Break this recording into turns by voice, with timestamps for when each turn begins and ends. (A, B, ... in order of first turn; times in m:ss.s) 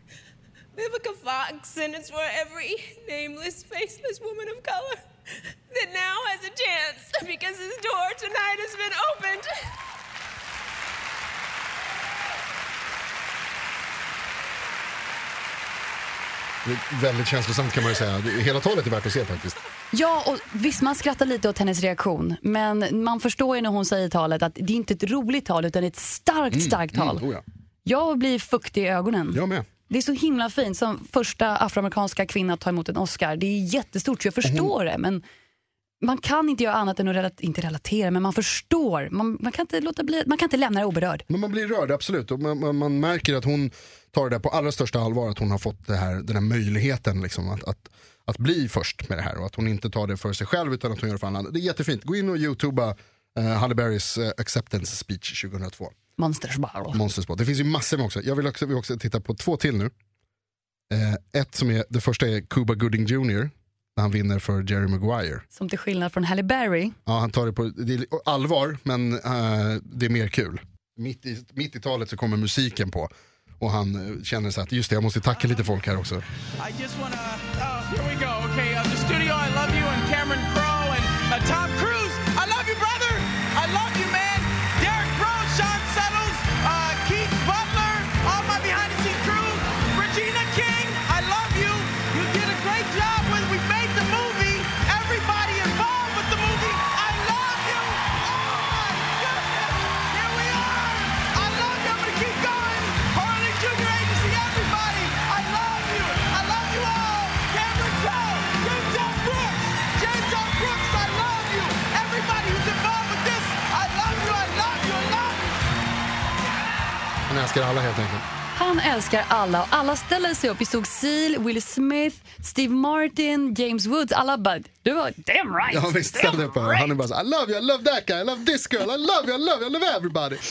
0:00.7-0:09.7 A
0:16.6-0:19.6 B
0:19.9-0:27.2 C
0:26.5-0:27.4 B
0:27.8-0:35.2 C
0:29.3-0:29.7 B
0:34.4-0:34.7 B
0:36.0-0:41.2 C
0:41.3-0:55.9 B
0:56.2-0:57.0 C
0:56.9-0:59.9 B
1:00.9-1:05.4 B
1:05.5-1:07.0 C
1:07.0-1:16.2 B
1:16.6-1:55.6 D
1:57.3-1:58.2 B
1:58.5-2:06.9 C
2:05.7-2:10.4 B